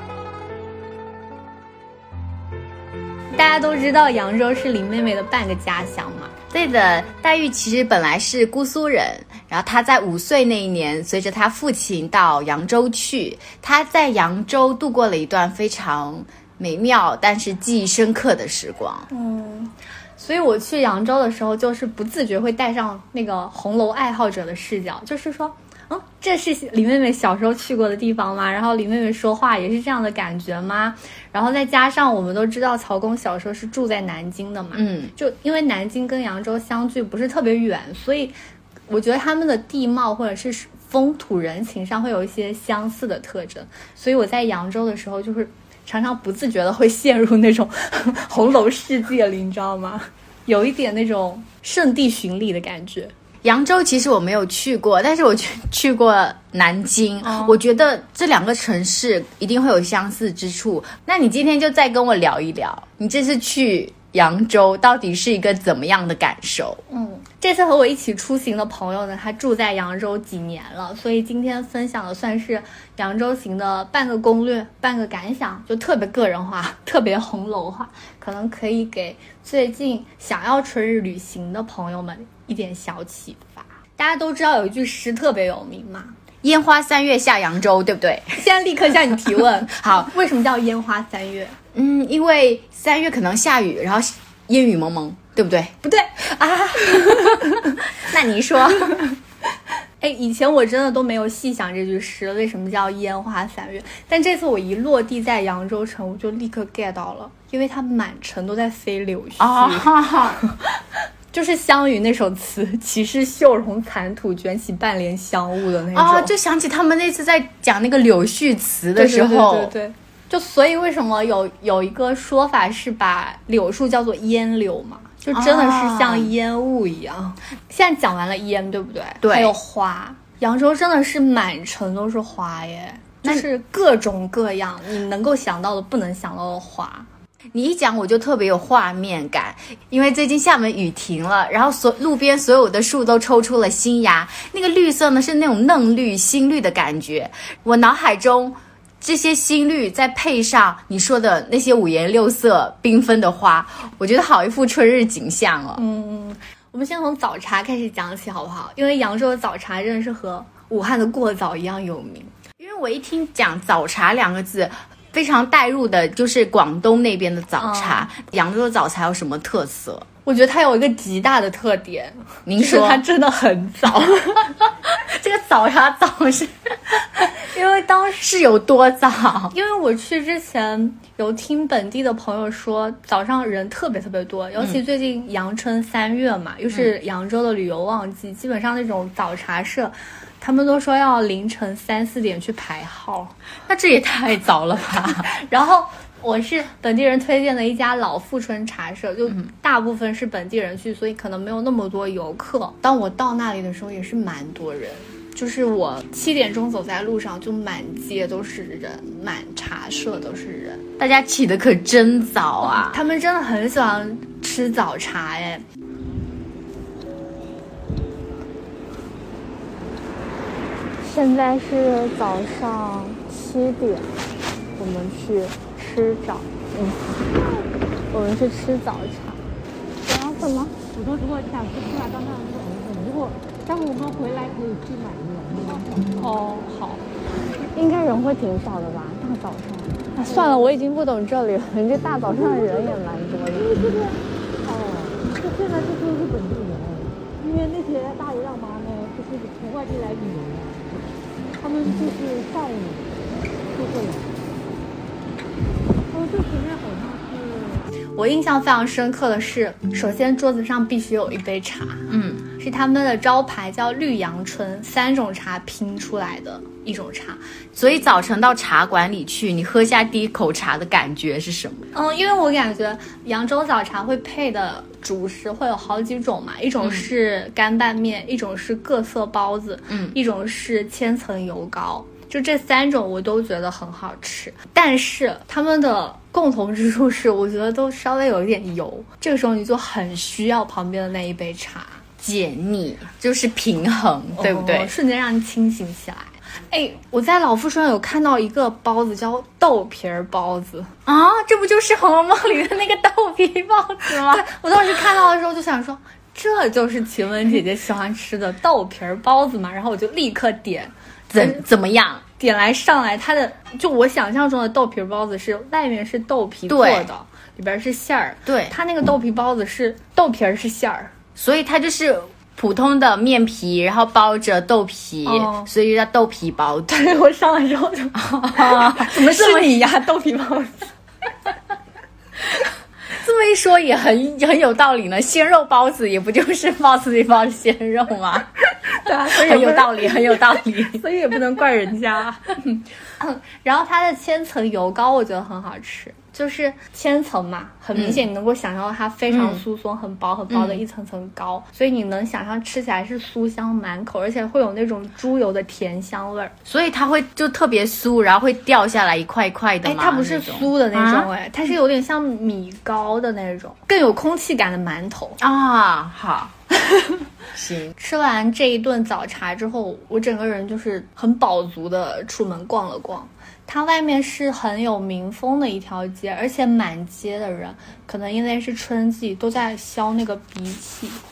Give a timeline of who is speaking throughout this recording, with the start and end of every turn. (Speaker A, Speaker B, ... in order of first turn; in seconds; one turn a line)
Speaker A: 3.3-6.3
Speaker B: 6.5-19.1
Speaker A: 19.1-38.3
Speaker B: 34.7-35.1
Speaker A: 38.9-53.1
Speaker B: 53.4-66.8
Speaker A: 57.2-57.6
Speaker A: 66.9-86.2
Speaker B: 86.4-88.4
Speaker A: 88.4-91.5
Speaker B: 89.8-90.1
Speaker B: 91.7-95.7
Speaker A: 95.8-97.8
Speaker B: 97.9-99.0
Speaker A: 100.0-110.5
Speaker B: 109.4-110.4
Speaker A: 111.3-116.3
Speaker B: 115.9-119.7
Speaker A: 118.9-137.1
Speaker B: 125.3-126.3
Speaker B: 129.2-129.5
Speaker B: 137.5-155.8
Speaker A: 155.8-162.3
Speaker B: 162.6-170.1
Speaker A: 167.6-168.1
Speaker A: 170.2-174.5
Speaker B: 172.4-173.0
Speaker B: 174.9-177.2
Speaker A: 177.3-178.3
Speaker B: 178.2-179.5
Speaker A: 179.5-193.3
Speaker B: 193.7-195.3
Speaker A: 195.1-210.8
Speaker B: 211.0-213.0
Speaker A: 212.6-215.6
Speaker A: 221.0-224.2
Speaker A: 224.8-227.2
Speaker A: 228.1-229.5
Speaker A: 230.1-230.7
Speaker C: 230.9-236.1
Speaker A: 236.2-237.1
Speaker A: 237.6-244.0
Speaker C: 240.2-240.7
Speaker C: 243.6-251.0
Speaker C: 251.6-254.6
Speaker C: 256.1-257.9
Speaker A: 258.1-267.4
Speaker B: 262.1-262.4
Speaker B: 267.7-271.9
Speaker A: 271.9-292.0
Speaker B: 279.9-280.1
Speaker B: 292.2-294.9
Speaker A: 294.4-300.9
Speaker B: 301.1-304.4
Speaker A: 304.1-311.6
Speaker B: 311.3-312.2
Speaker A: 312.4-321.1
Speaker B: 316.7-317.1
Speaker B: 318.4-318.7
Speaker B: 321.4-327.0
Speaker A: 325.2-325.7
Speaker A: 326.9-330.9
Speaker B: 328.2-329.7
Speaker B: 333.1-338.5
Speaker A: 339.0-356.5
Speaker B: 339.1-341.0
Speaker B: 347.9-348.2
Speaker B: 349.3-349.6
Speaker B: 350.5-350.8
Speaker B: 356.6-361.3
Speaker A: 359.8-365.4
Speaker B: 365.4-366.5
Speaker A: 366.9-367.1
Speaker B: 367.5-367.9
Speaker A: 368.0-381.2